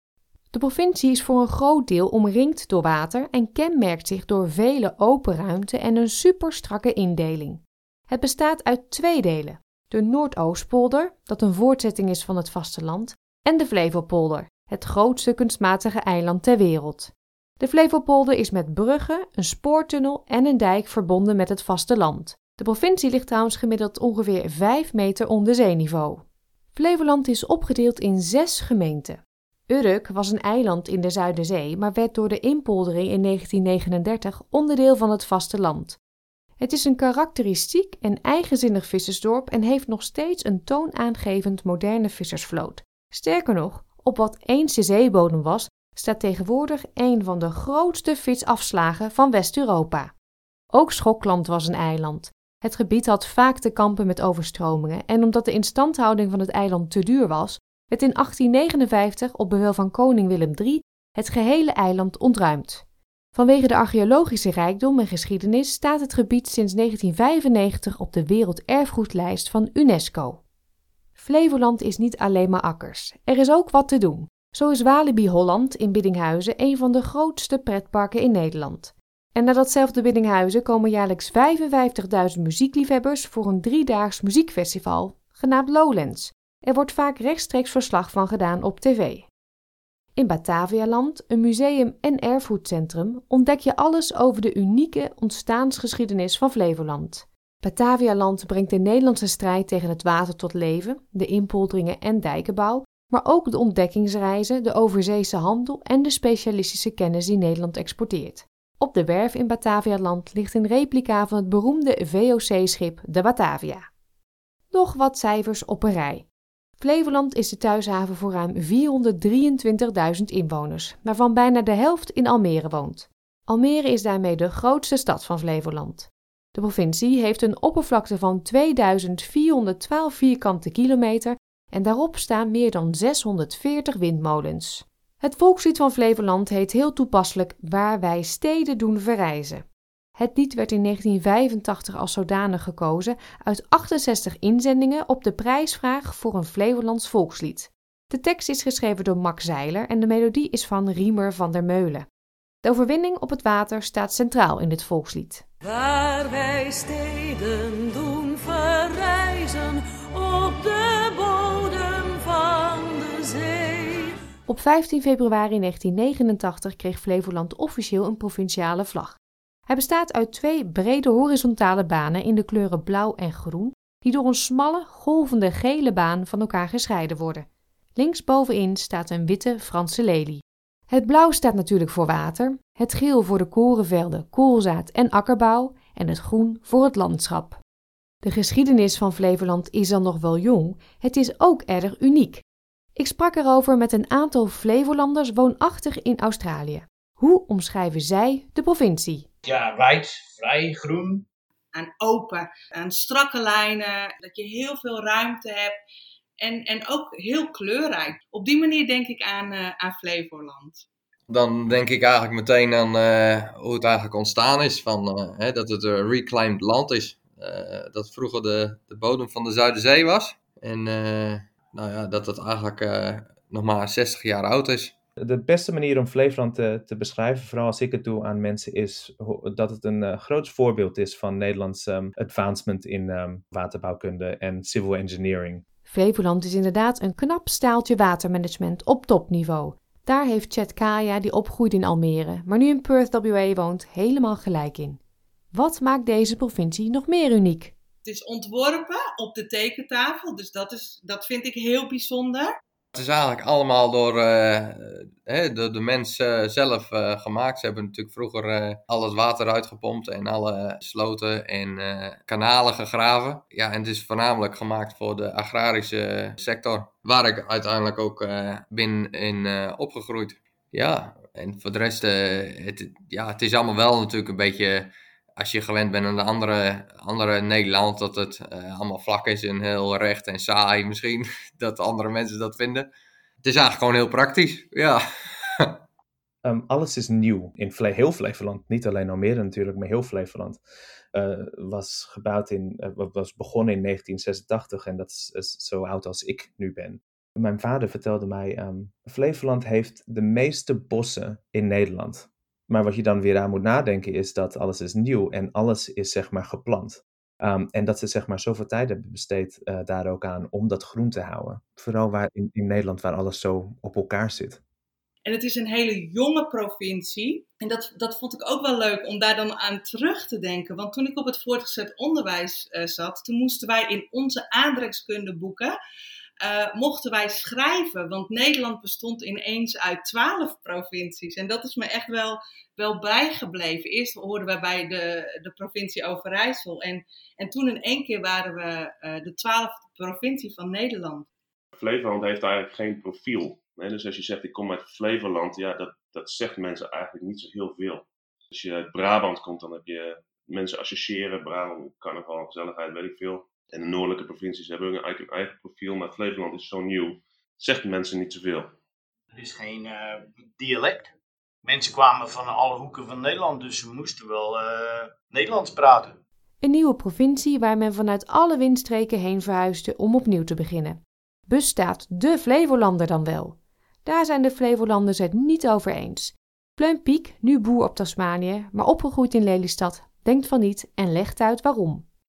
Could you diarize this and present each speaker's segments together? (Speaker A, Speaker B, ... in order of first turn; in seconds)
Speaker A: 0.5-36.0, 36.6-50.1, 50.7-70.4, 71.2-89.3, 90.2-113.9, 114.7-116.3, 116.8-139.7, 140.2-152.1, 152.6-155.4, 164.5-187.6, 188.2-192.4, 192.9-199.3, 235.9-245.0, 245.5-247.8, 366.6-382.1
Speaker B: 155.7-163.9
Speaker C: 199.4-201.3, 359.3-366.2
Speaker D: 201.7-205.7, 206.4-210.8, 248.0-252.5, 315.2-325.8, 326.4-341.3
Speaker E: 211.3-224.9, 252.9-282.9, 283.4-285.8
Speaker F: 225.2-235.6, 286.4-290.6, 291.1-314.6
Speaker G: 341.8-358.7